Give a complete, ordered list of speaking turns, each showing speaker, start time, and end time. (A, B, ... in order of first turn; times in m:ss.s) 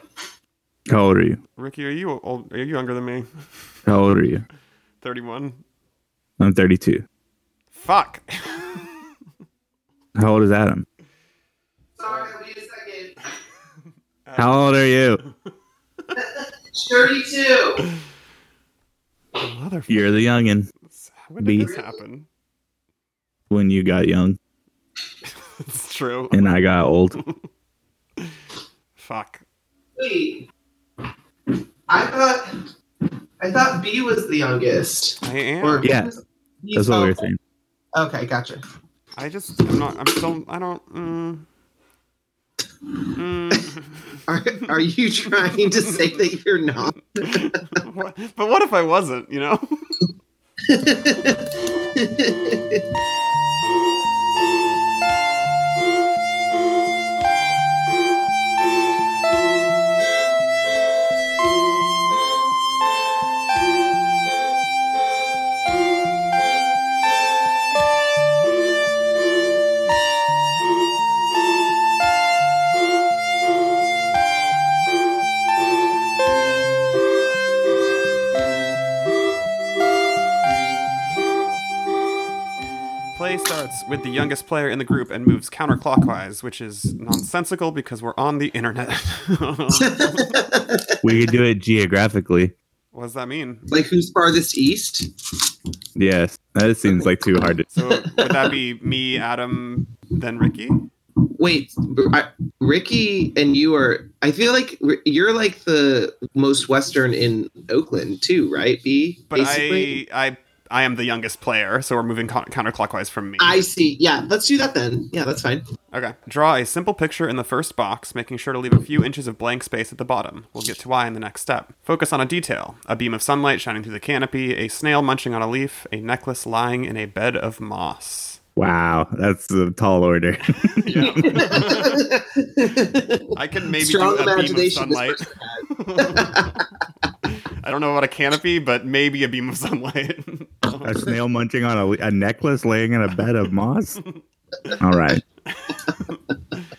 0:00.9-0:01.4 A
0:01.6-0:03.3 B
0:03.9-0:04.4 A
0:05.0-0:05.6 B
0:06.4-0:07.0 A
0:07.7-0:09.1 B
0:10.1-0:10.8 A
0:12.0-0:13.2 C
0:12.1-0:12.3 B
0:14.2-0:15.3 B
0:14.4-0:15.2 A
0:16.2-0:17.8 C
0:19.4-0:22.3 B
0:19.9-0:20.7 A
0:21.4-0:21.7 A
0:21.6-0:21.9 C
0:23.5-0:24.4 A
0:25.4-0:26.6 B
0:26.3-0:27.2 A
0:29.0-0:29.4 B
0:30.0-0:30.4 C
0:31.9-0:32.5 C
0:33.4-0:37.2 C
0:35.2-0:35.9 B
0:35.8-0:36.1 A
0:36.7-0:37.4 A
0:37.9-0:38.6 C
0:39.2-0:41.4 B
0:42.9-0:43.6 C
0:43.1-0:44.2 B
0:44.3-0:47.8 C
0:45.4-0:45.9 B
0:47.2-0:49.8 B
0:50.7-0:52.8 C
1:23.1-1:30.4 B
1:29.8-1:31.2 C
1:31.0-1:32.5 A
1:32.9-1:33.7 B
1:33.7-1:35.1 C
1:36.0-1:37.6 A
1:36.9-1:37.5 C
1:37.7-1:40.8 B
1:38.0-1:38.5 C
1:41.4-1:50.0 C
1:49.3-1:53.6 B
1:53.4-1:55.6 C
1:55.9-2:08.4 B
2:08.6-2:11.6 A
2:10.8-2:12.0 B
2:11.0-2:16.6 C
2:13.3-2:16.7 B
2:17.2-2:21.0 B
2:20.8-2:24.0 A
2:24.1-2:24.8 B
2:24.8-2:25.2 A
2:25.5-2:26.2 B
2:25.7-2:26.1 C